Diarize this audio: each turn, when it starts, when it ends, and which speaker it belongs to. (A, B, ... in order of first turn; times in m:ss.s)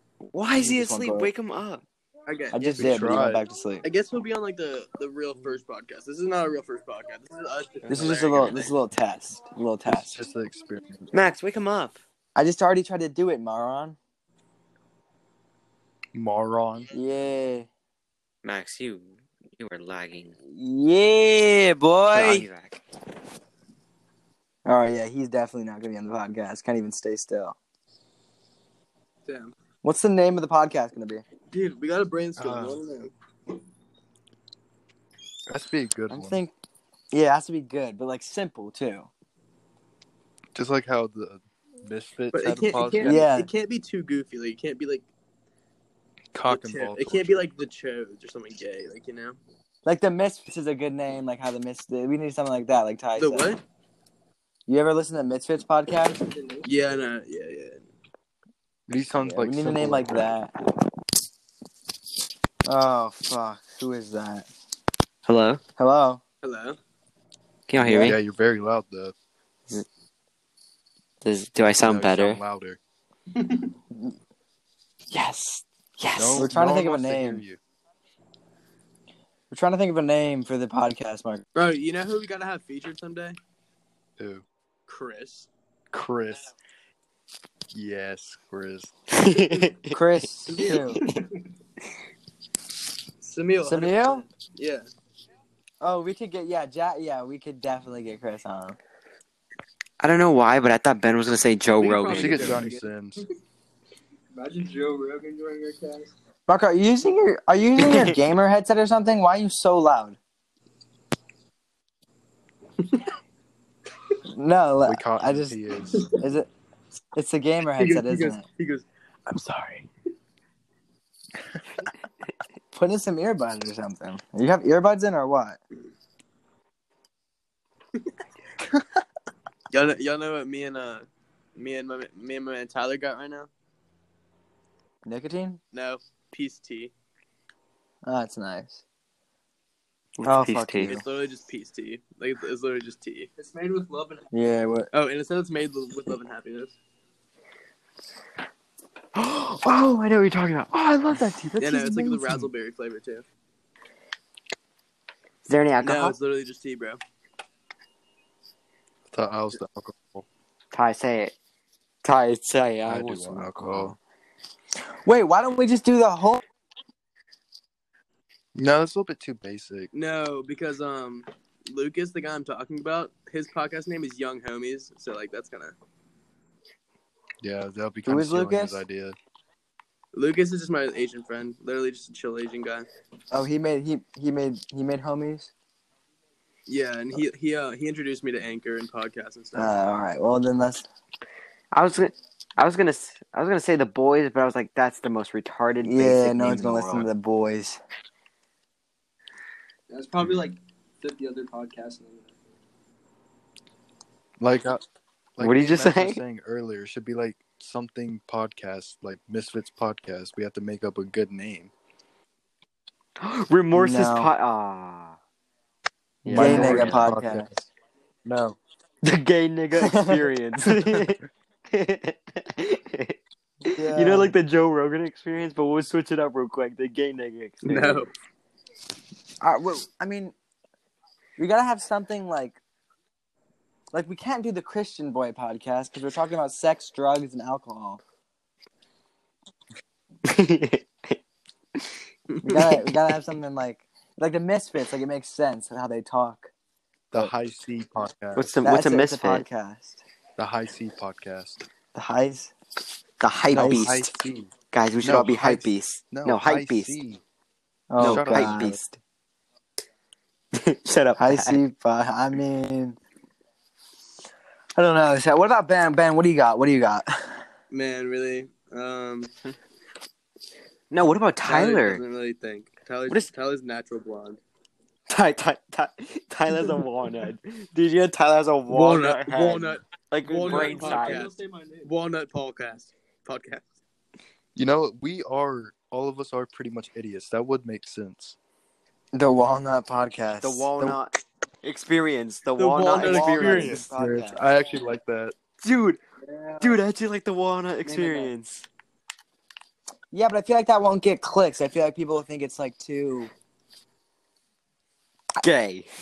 0:00.3-0:01.8 A
0:00.5-0:01.3 B
0:02.3-0:02.9 C
0:02.5-0:03.8 B
0:02.8-0:03.4 D
0:03.8-0:08.7 C
0:07.8-0:10.2 B
0:09.8-0:11.1 D
0:11.1-0:12.0 A
0:12.3-0:14.0 B
0:16.1-0:16.9 D
0:16.9-0:17.7 B
0:18.4-0:20.4 A
0:20.4-0:22.5 B
0:22.1-0:22.8 A
0:24.6-0:27.6 B
0:29.2-0:29.5 C
0:29.8-0:31.2 B
0:31.5-0:33.1 C
0:32.4-0:32.8 D
0:35.5-0:36.4 D
0:36.1-0:36.5 B
0:37.1-0:39.1 B
0:40.5-0:43.2 D
0:42.3-0:45.1 C
0:43.0-0:43.5 B
0:46.3-0:47.4 D
0:46.5-0:49.4 C
0:49.8-0:53.5 B
0:53.2-0:53.6 C
0:54.7-0:56.2 B
0:56.2-0:56.7 E
0:56.6-0:57.8 C
0:58.9-1:00.3 D
0:59.0-1:00.5 B
1:02.6-1:04.5 B
1:05.2-1:05.6 A
1:05.8-1:06.2 B
1:06.4-1:06.8 C
1:07.7-1:08.2 A
1:07.8-1:09.1 D
1:11.2-1:12.4 A
1:11.8-1:12.8 D
1:15.1-1:16.5 A
1:16.2-1:17.6 D
1:16.4-1:17.4 B
1:19.5-1:21.4 B
1:21.5-1:23.4 C
1:24.2-1:24.4 D
1:24.9-1:25.5 C
1:25.9-1:26.5 D
1:27.7-1:28.9 D
1:29.1-1:30.0 A
1:29.9-1:31.0 B
1:30.5-1:31.0 C
1:33.2-1:34.9 C
1:33.6-1:34.2 B
1:35.8-1:38.8 B
1:40.0-1:42.6 A
1:41.8-1:43.2 D
1:42.0-1:42.9 E
1:42.2-1:42.7 C
1:44.3-1:46.1 E
1:46.5-1:50.2 B
1:47.8-1:48.1 A
1:54.3-1:55.6 B
1:54.8-1:56.2 D
1:56.1-1:56.5 B
1:57.1-1:58.4 B
1:57.8-1:59.8 C
2:02.7-2:05.6 B
2:09.7-2:13.5 C
2:15.0-2:15.6 B
2:15.7-2:16.9 C
2:18.0-2:18.8 B
2:20.2-2:21.0 A
2:20.2-2:21.0 B
2:20.8-2:23.3 C
2:23.4-2:24.3 E
2:24.3-2:24.9 B
2:24.9-2:26.8 C
2:29.1-2:32.5 A
2:31.6-2:33.2 C
2:35.5-2:36.1 A
2:35.8-2:37.0 C
2:39.1-2:40.2 D
2:40.7-2:41.3 A
2:42.0-2:44.0 A
2:42.8-2:44.0 D
2:45.0-2:46.4 B
2:48.5-2:49.9 D
2:49.9-2:55.7 C
2:57.4-2:59.2 D
2:58.0-2:58.8 B
3:00.1-3:02.9 C
3:03.3-3:05.5 B
3:06.7-3:10.0 C
3:09.5-3:10.8 B
3:11.7-3:17.1 A
3:15.8-3:17.8 B
3:19.9-3:22.4 E
3:20.2-3:20.5 D
3:24.4-3:24.8 D
3:25.4-3:31.7 D
3:25.4-3:26.2 A
3:33.2-3:35.2 A
3:33.7-3:34.3 B
3:36.2-3:37.1 A
3:36.2-3:37.6 D
3:36.3-3:37.5 B
3:38.2-3:38.6 D
3:39.0-3:43.2 A
3:39.8-3:40.2 B
3:43.6-3:44.3 B
3:43.7-3:48.0 A
3:47.6-3:48.1 C
3:49.4-3:50.3 B
3:51.4-3:52.6 B
3:53.9-3:58.0 B
4:00.2-4:01.2 A
4:02.3-4:02.6 C
4:02.4-4:06.5 B
4:07.1-4:08.5 D
4:08.3-4:09.4 A
4:08.6-4:10.0 B
4:10.4-4:11.6 D
4:11.9-4:12.5 B
4:13.2-4:14.1 A
4:13.5-4:13.9 B
4:13.5-4:17.2 D
4:14.7-4:17.0 A
4:17.9-4:18.8 B
4:18.0-4:18.7 D
4:18.0-4:19.0 A
4:20.5-4:21.6 A
4:21.2-4:23.0 B
4:24.8-4:27.4 B
4:27.7-4:29.3 C
4:30.9-4:32.0 A
4:31.4-4:34.4 C
4:35.1-4:41.3 A
4:38.7-4:43.6 C
4:40.4-4:41.9 E
4:44.6-4:48.4 D
4:49.1-4:50.9 B
4:50.4-4:53.8 A
4:52.6-4:53.8 C
4:52.9-4:54.4 B
4:53.7-4:55.3 D
4:55.6-4:56.0 A
4:56.2-4:56.8 E
4:56.6-4:58.7 A
4:57.8-4:58.3 E
4:57.9-4:58.2 B
5:00.1-5:03.3 B
5:05.4-5:05.9 A